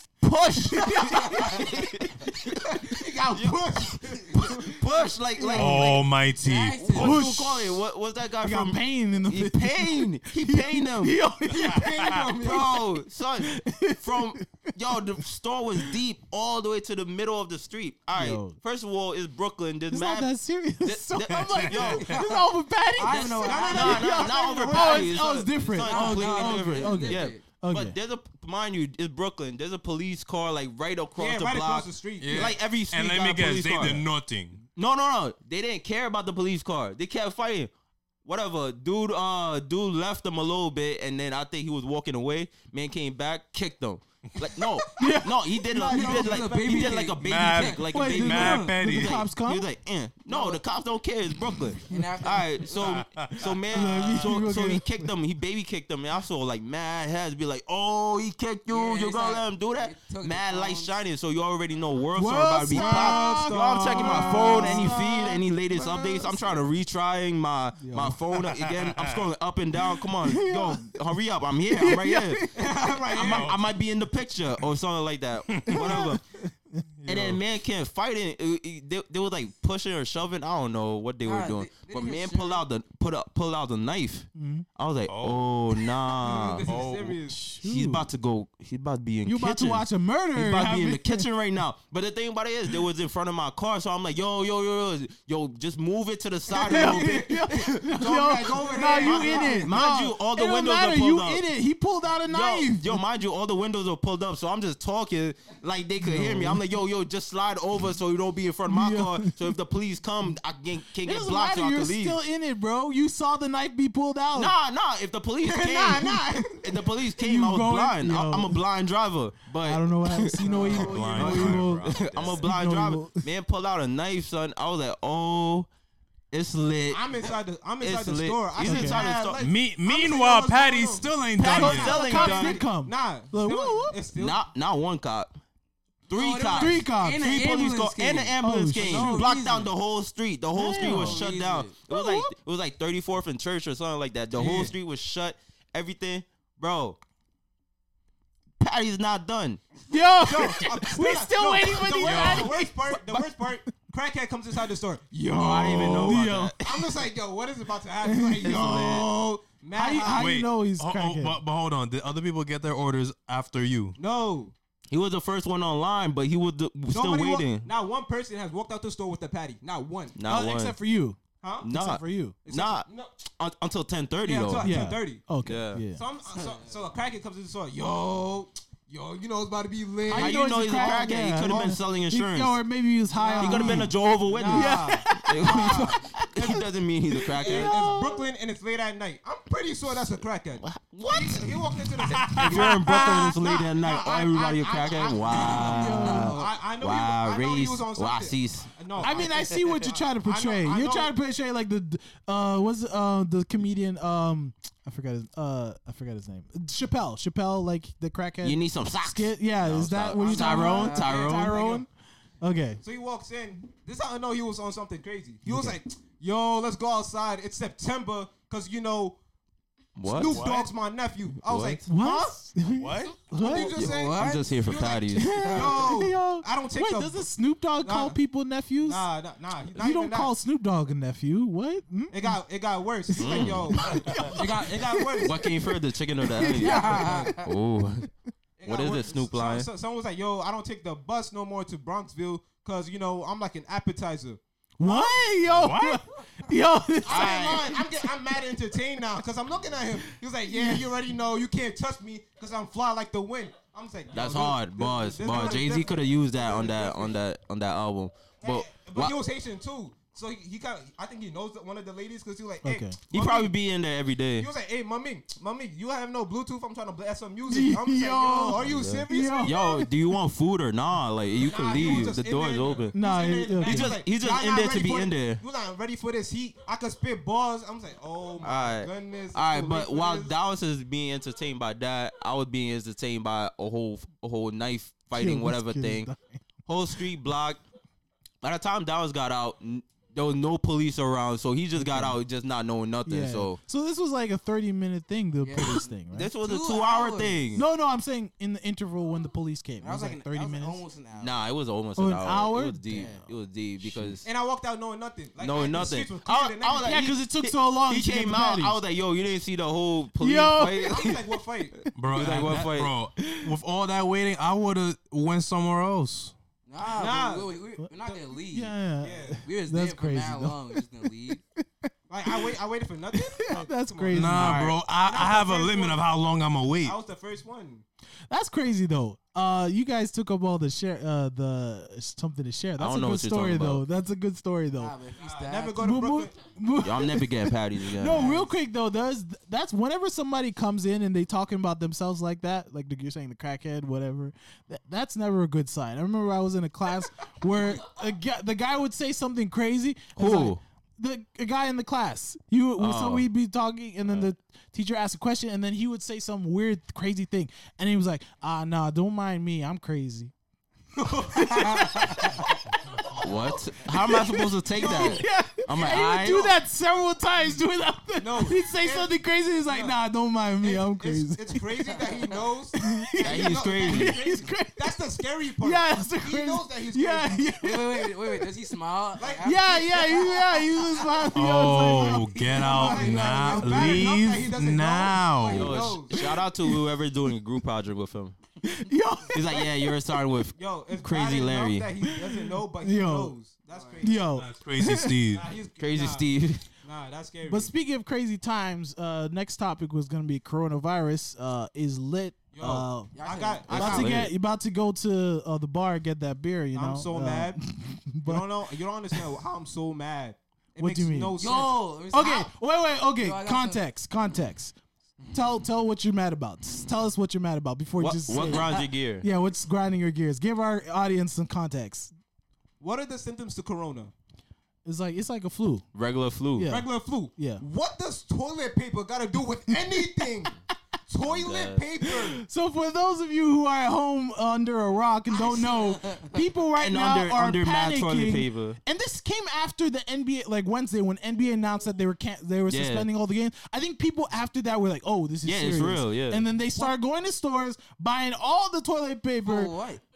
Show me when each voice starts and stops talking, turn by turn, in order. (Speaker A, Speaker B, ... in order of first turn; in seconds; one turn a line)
Speaker A: 0.2-3.6
Speaker B: 0.6-1.7
Speaker C: 1.2-1.7
Speaker D: 2.7-4.8
Speaker A: 4.2-6.1
Speaker B: 5.4-6.0
Speaker E: 5.5-7.3
Speaker C: 6.4-7.2
Speaker A: 6.9-11.2
Speaker B: 7.0-7.8
Speaker B: 8.4-12.5
Speaker D: 11.5-12.9
Speaker A: 12.4-20.3
Speaker B: 13.4-14.4
Speaker B: 18.1-18.6
Speaker B: 19.9-28.0
Speaker A: 20.8-22.2
Speaker E: 21.4-22.2
Speaker D: 23.0-25.1
Speaker A: 23.0-34.1
Speaker C: 23.0-24.0
Speaker C: 25.8-27.4
Speaker D: 25.9-26.5
Speaker D: 31.2-32.5
Speaker E: 32.2-34.6
Speaker A: 34.8-37.7
Speaker A: 38.2-72.5
Speaker B: 44.9-46.5
Speaker D: 45.8-47.2
Speaker C: 45.9-48.7
Speaker E: 47.2-49.2
Speaker B: 47.9-49.7
Speaker C: 50.3-50.6
Speaker C: 51.9-53.0
Speaker E: 52.8-54.2
Speaker B: 53.7-55.1
Speaker C: 58.7-60.9
Speaker B: 62.1-66.4
Speaker D: 62.7-65.2
Speaker B: 67.8-68.2
Speaker E: 68.5-69.2
Speaker B: 70.2-71.0
Speaker B: 71.7-72.9
Speaker D: 72.5-73.5
Speaker A: 73.1-76.2
Speaker E: 73.2-73.6
Speaker E: 75.5-75.9
Speaker B: 75.7-76.5
Speaker E: 77.0-77.4
Speaker A: 77.1-86.7
Speaker C: 81.2-82.7
Speaker B: 84.4-84.7
Speaker E: 85.1-85.4
Speaker D: 86.1-87.4
Speaker E: 86.7-87.2
Speaker B: 87.3-88.1
Speaker A: 87.6-97.8
Speaker B: 89.2-91.3
Speaker B: 96.6-103.0
Speaker D: 96.6-99.8
Speaker A: 99.0-101.4
Speaker A: 102.3-112.2
Speaker B: 106.0-106.6
Speaker B: 108.7-109.5
Speaker B: 111.0-114.5
Speaker A: 114.3-125.7
Speaker D: 115.4-116.7
Speaker B: 117.2-118.6
Speaker B: 119.6-123.3
Speaker D: 120.4-121.7
Speaker E: 120.6-122.5
Speaker A: 126.3-127.1
Speaker D: 126.9-134.4
Speaker A: 127.8-129.4
Speaker B: 128.6-129.0
Speaker E: 129.4-132.0
Speaker A: 131.4-132.6
Speaker B: 131.5-134.0
Speaker A: 134.2-135.4
Speaker A: 136.1-147.0
Speaker C: 136.1-139.7
Speaker B: 136.5-137.4
Speaker B: 138.4-139.3
Speaker B: 140.6-141.2
Speaker C: 140.8-141.8
Speaker B: 141.9-142.3
Speaker D: 144.3-144.7
Speaker A: 148.6-149.6
Speaker B: 149.9-153.7
Speaker D: 150.2-160.3
Speaker E: 152.0-152.6
Speaker A: 155.3-156.8
Speaker E: 155.4-156.1
Speaker B: 155.7-156.8
Speaker B: 158.0-159.0
Speaker A: 158.4-159.1
Speaker B: 159.7-161.4
Speaker E: 160.0-164.0
Speaker D: 164.0-164.5
Speaker A: 164.9-167.7
Speaker D: 166.9-170.2
Speaker A: 170.2-170.8
Speaker B: 170.2-172.4
Speaker D: 171.4-171.7
Speaker A: 171.6-174.8
Speaker D: 172.5-173.1
Speaker D: 174.2-175.3
Speaker B: 174.6-176.0
Speaker A: 175.4-175.8
Speaker D: 175.9-181.8
Speaker C: 176.3-176.7
Speaker B: 180.1-183.9
Speaker A: 180.1-182.6
Speaker D: 183.1-186.6
Speaker A: 183.4-187.9
Speaker B: 184.5-186.6
Speaker B: 187.3-188.3
Speaker D: 187.4-201.1
Speaker A: 190.6-191.5
Speaker E: 192.2-192.9
Speaker A: 192.2-198.7
Speaker B: 192.6-193.2
Speaker B: 195.4-196.4
Speaker C: 195.5-196.5
Speaker B: 199.0-211.9
Speaker A: 208.4-211.6
Speaker D: 210.2-211.9
Speaker B: 212.4-212.8
Speaker D: 212.8-219.2
Speaker A: 215.5-215.8
Speaker A: 220.0-220.5
Speaker D: 220.1-222.5
Speaker E: 220.2-220.7
Speaker A: 221.4-221.8
Speaker B: 221.9-223.8
Speaker E: 222.7-223.3
Speaker D: 223.3-227.3
Speaker C: 223.5-225.9
Speaker A: 223.6-225.5
Speaker B: 225.2-229.1
Speaker D: 227.8-228.2
Speaker D: 228.8-230.3
Speaker B: 229.8-232.4
Speaker D: 232.1-235.4
Speaker B: 233.1-235.6
Speaker A: 233.2-233.9
Speaker A: 235.2-238.1
Speaker B: 236.3-237.4
Speaker C: 236.5-237.5
Speaker D: 236.7-237.3
Speaker D: 238.6-245.2
Speaker A: 238.7-239.7
Speaker B: 244.8-248.1
Speaker E: 245.4-246.0
Speaker D: 247.1-257.2
Speaker A: 247.1-247.7
Speaker B: 250.5-250.9
Speaker A: 254.1-259.2
Speaker D: 258.4-263.5
Speaker B: 262.6-263.0
Speaker A: 263.1-264.5
Speaker D: 264.4-269.8
Speaker B: 267.5-269.9
Speaker A: 268.6-272.9
Speaker D: 271.4-280.3
Speaker B: 272.9-274.0
Speaker A: 273.6-275.4
Speaker A: 278.4-286.1
Speaker B: 285.1-286.4
Speaker A: 286.7-287.6
Speaker A: 288.4-293.6
Speaker B: 291.8-292.2
Speaker B: 293.1-296.3
Speaker C: 295.4-295.9
Speaker A: 296.1-297.6
Speaker C: 296.4-297.4
Speaker B: 297.6-300.8
Speaker C: 299.8-301.3
Speaker A: 301.2-304.3
Speaker B: 302.0-303.1
Speaker C: 302.9-303.3
Speaker D: 304.2-307.0
Speaker A: 305.4-311.2
Speaker B: 306.9-308.8
Speaker B: 310.2-311.2
Speaker D: 310.9-311.8
Speaker B: 311.9-312.5
Speaker E: 311.9-316.3
Speaker A: 312.1-312.9
Speaker B: 313.2-313.6
Speaker C: 316.7-318.8
Speaker D: 316.9-317.5
Speaker B: 318.5-320.8
Speaker D: 319.0-319.4
Speaker C: 319.4-321.4
Speaker B: 321.6-322.5
Speaker D: 322.1-326.0
Speaker B: 323.1-324.6
Speaker E: 324.1-327.0
Speaker A: 324.4-324.8
Speaker D: 326.8-327.9
Speaker B: 328.3-334.9
Speaker A: 332.8-333.8
Speaker C: 334.7-336.0
Speaker D: 335.2-336.3
Speaker B: 335.8-360.3
Speaker A: 336.8-338.3
Speaker C: 338.1-338.5
Speaker A: 350.2-350.6
Speaker A: 352.8-353.3
Speaker D: 361.0-362.4
Speaker B: 361.3-363.2
Speaker A: 363.1-366.5
Speaker B: 363.8-372.1
Speaker D: 364.7-365.2
Speaker D: 368.2-370.0
Speaker D: 370.6-377.5
Speaker B: 372.7-378.1
Speaker A: 373.2-374.2
Speaker C: 377.6-381.0
Speaker D: 379.2-380.3
Speaker B: 379.4-384.2
Speaker E: 381.3-385.9
Speaker D: 382.5-386.2
Speaker A: 385.5-388.4
Speaker B: 386.1-386.8
Speaker B: 388.6-389.9
Speaker A: 389.3-391.9
Speaker D: 390.6-394.3
Speaker B: 392.0-393.4
Speaker C: 393.7-394.1
Speaker B: 394.0-395.2
Speaker E: 394.4-395.5
Speaker D: 395.3-396.3
Speaker A: 395.8-396.6
Speaker D: 396.8-397.7
Speaker B: 397.5-403.1
Speaker D: 402.5-404.3
Speaker C: 403.1-403.9
Speaker A: 403.7-404.3
Speaker B: 403.7-408.6
Speaker D: 406.7-407.6
Speaker D: 408.3-411.8
Speaker B: 410.8-411.4
Speaker C: 411.4-412.5
Speaker B: 412.1-414.7
Speaker C: 413.2-413.9
Speaker B: 415.3-422.1
Speaker A: 418.0-419.3
Speaker C: 418.4-418.8
Speaker D: 422.8-424.1
Speaker B: 424.9-425.9
Speaker A: 425.9-426.7
Speaker B: 426.6-427.6
Speaker D: 426.7-432.4
Speaker B: 429.9-430.2
Speaker A: 431.2-431.9
Speaker B: 432.0-449.7
Speaker C: 435.3-436.4
Speaker A: 436.8-438.8
Speaker A: 442.7-443.1
Speaker A: 445.4-446.4
Speaker C: 449.4-450.0